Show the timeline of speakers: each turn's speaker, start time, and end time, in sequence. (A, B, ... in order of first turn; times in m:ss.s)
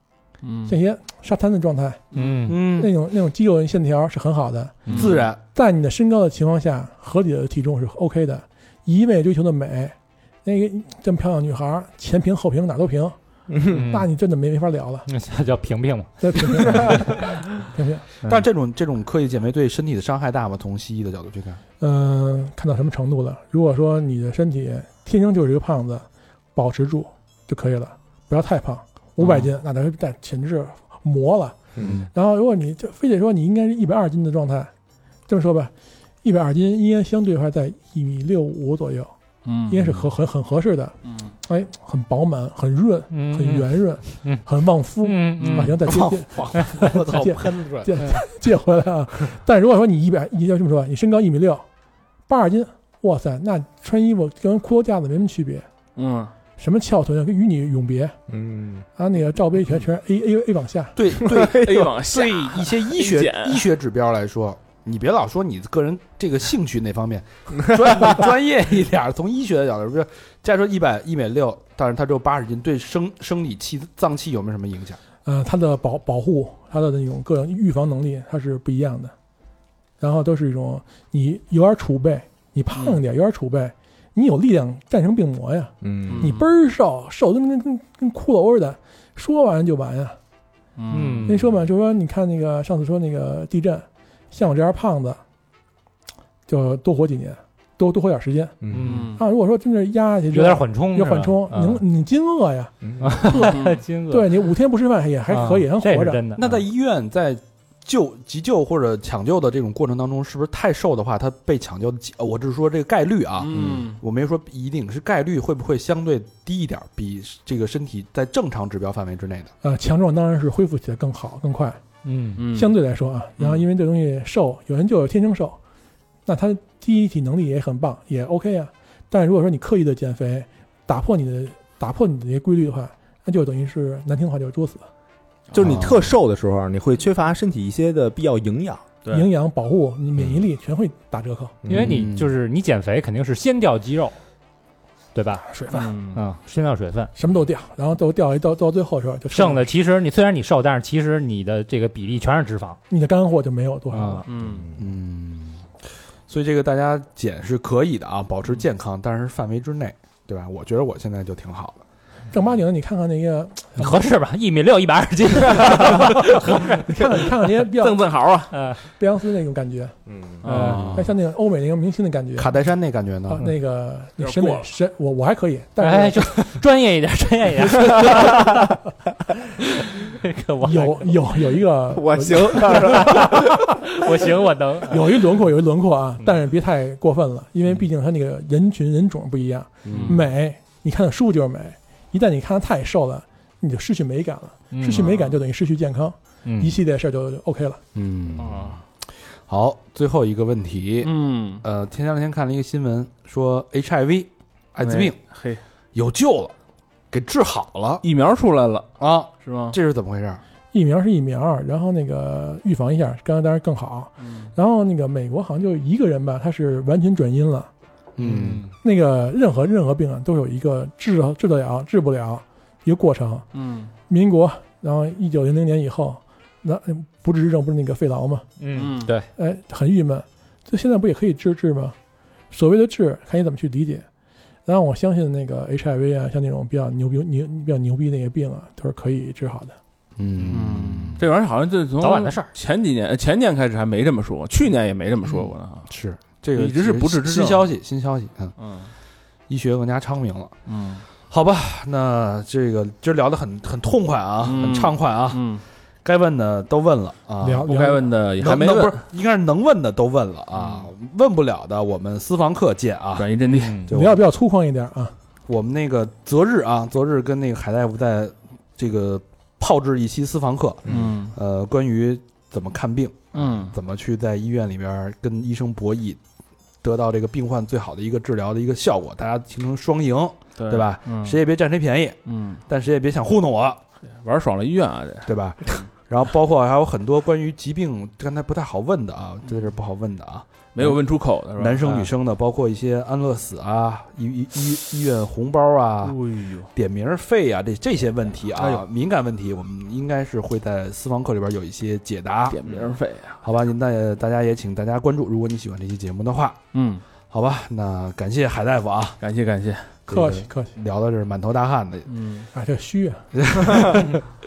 0:00.4-0:00.8 A
0:00.7-0:02.0 B
0:02.1-0:02.4 A
0:02.1-0:02.6 C
0:02.4-0:02.9 D
0:02.6-0:13.2 B
0:04.8-0:05.3 A
0:04.9-0:05.4 D
0:13.5-0:13.7 E
0:13.7-0:14.1 C
0:13.7-0:15.1 B
0:15.1-0:17.2 C
0:16.2-0:18.0 B
0:18.2-0:21.6 D
0:21.8-0:34.7 B
0:31.8-0:32.1 D
0:35.3-0:35.7 B
0:36.2-0:39.1 B
0:39.4-0:39.8 A
0:39.7-0:51.6 B
0:43.1-0:44.4 C
0:45.0-0:45.8 C
0:46.3-0:47.8 D
0:46.8-0:47.7 E
0:52.3-0:55.7 B
0:56.0-0:56.3 A
0:56.6-0:58.2 B
0:58.3-0:58.8 E
0:59.0-1:01.0 B
1:01.0-1:15.0 D
1:01.1-1:01.9 E
1:01.4-1:03.6 A
1:15.2-1:19.1 B
1:20.0-1:30.2 B
1:25.8-1:26.3 E
1:26.1-1:26.5 A
1:30.8-1:31.4 A
1:30.9-1:31.4 C
1:31.3-1:35.2 B
1:36.5-1:46.2 B
1:38.6-1:39.1 E
1:38.7-1:39.1 C
1:38.8-1:39.2 A
1:40.3-1:41.8 C
1:42.8-1:43.2 E
1:43.0-1:44.4 C
1:43.4-1:43.8 A
1:45.3-1:46.5 C
1:46.4-1:59.5 D
1:53.4-1:54.0 A
1:53.5-1:53.8 E
1:59.6-2:01.8 B
2:02.0-2:02.4 C
2:02.4-2:02.7 A
2:02.5-2:05.6 B
2:06.2-2:14.8 B
2:15.5-2:15.9 A
2:15.5-2:18.9 E
2:15.6-2:16.0 D
2:19.1-2:21.6 B
2:21.6-2:22.1 E
2:21.7-2:24.2 C
2:21.7-2:22.3 D
2:25.1-2:25.6 C
2:25.5-2:25.9 B
2:25.7-2:26.2 A
2:26.1-2:27.1 C
2:27.1-2:29.7 B
2:29.3-2:32.8 C
2:32.9-2:34.2 B
2:33.9-2:34.2 C
2:34.3-2:34.7 A
2:34.4-2:34.7 E
2:34.8-2:35.7 D
2:36.3-2:41.8 D
2:42.3-2:44.0 B
2:43.8-2:46.8 C
2:45.8-2:48.0 B
2:47.6-2:48.5 A
2:48.5-2:48.8 C
2:49.0-2:50.0 B
2:50.1-2:50.4 E
2:50.4-2:51.1 A
2:50.5-2:50.8 C
2:50.5-2:52.5 B
2:52.4-2:53.4 D
2:53.4-2:56.3 B
2:54.2-2:54.7 A
2:55.8-2:58.8 C
2:58.1-2:58.5 E
2:59.6-3:01.2 C
3:00.6-3:03.4 B
3:01.9-3:03.5 E
3:02.8-3:05.3 C
3:04.9-3:17.8 B
3:09.8-3:10.1 D
3:09.9-3:10.2 A
3:14.7-3:15.1 C
3:14.9-3:15.3 A
3:16.4-3:16.8 C
3:17.9-3:25.2 D
3:18.4-3:18.8 A
3:21.0-3:21.6 A
3:24.8-3:25.6 A
3:25.9-3:26.5 D
3:27.1-3:28.0 D
3:28.0-3:28.9 A
3:29.0-3:30.4 D
3:29.4-3:29.8 A
3:30.7-3:37.7 B
3:34.2-3:34.5 A
3:38.2-3:38.7 D
3:38.2-3:38.6 C
3:38.8-3:43.5 B
3:43.5-3:43.9 A
3:44.1-3:48.5 B
3:48.6-3:49.3 C
3:48.7-3:49.1 A
3:49.3-3:52.0 B
3:52.5-3:54.0 B
3:54.6-3:59.8 B
4:00.2-4:01.3 D
4:00.4-4:05.9 A
4:02.0-4:02.5 C
4:05.2-4:08.6 D
4:06.5-4:07.7 A
4:08.6-4:08.9 A
4:09.5-4:10.6 D
4:10.6-4:11.0 A
4:11.1-4:15.5 D
4:14.4-4:15.6 A
4:16.0-4:17.7 D
4:17.4-4:18.1 B
4:17.6-4:19.0 A
4:18.4-4:23.3 D
4:20.5-4:20.9 A
4:23.2-4:23.9 A
4:23.5-4:23.9 C
4:23.9-4:24.2 D
4:23.9-4:25.1 B
4:25.5-4:36.2 D
4:30.8-4:31.3 A
4:33.3-4:33.7 A
4:36.8-4:43.8 D
4:40.6-4:41.4 A
4:42.2-4:42.6 A
4:44.1-4:45.9 A
4:45.2-4:56.2 D
4:50.7-4:52.1 A
4:56.0-4:56.7 A
4:56.7-5:02.6 D
4:58.5-4:58.8 A
5:02.5-5:03.4 A
5:03.4-5:06.7 D
5:06.7-5:07.0 A
5:07.3-5:09.2 D
5:09.2-5:10.0 A
5:10.1-5:12.1 D
5:10.1-5:10.7 B
5:12.1-5:12.5 A
5:12.5-5:13.2 B
5:13.3-5:14.2 D